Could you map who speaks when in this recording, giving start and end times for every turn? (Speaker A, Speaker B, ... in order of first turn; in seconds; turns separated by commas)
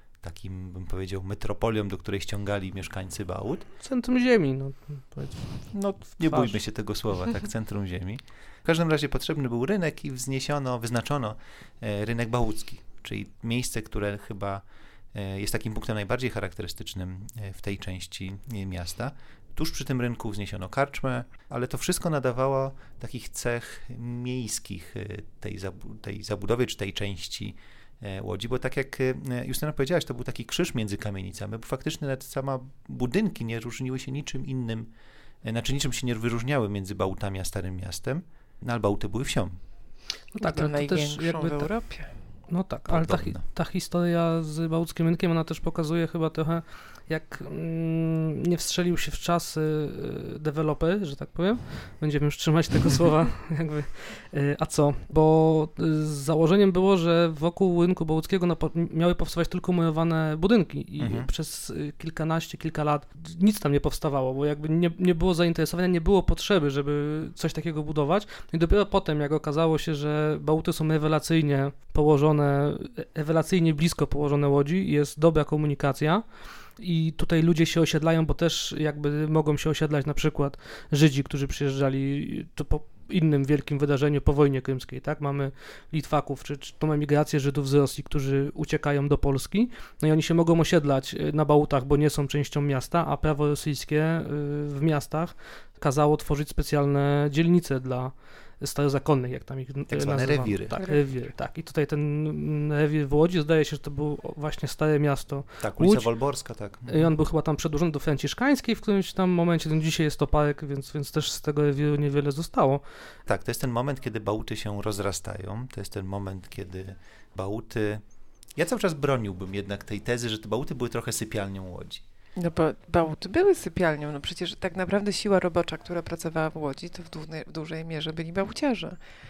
Speaker A: 0.2-3.6, Speaker B: 3.8-6.6, Speaker A: 6.2-34.9, Speaker A: 35.4-39.6, Speaker C: 40.3-42.1, Speaker B: 40.4-41.7, Speaker B: 42.5-106.1, Speaker A: 42.9-43.4, Speaker A: 61.0-61.3, Speaker A: 99.9-100.8, Speaker C: 100.8-101.0, Speaker A: 105.6-107.1, Speaker B: 106.9-112.8, Speaker A: 113.3-118.0, Speaker A: 118.5-122.0, Speaker C: 122.4-129.0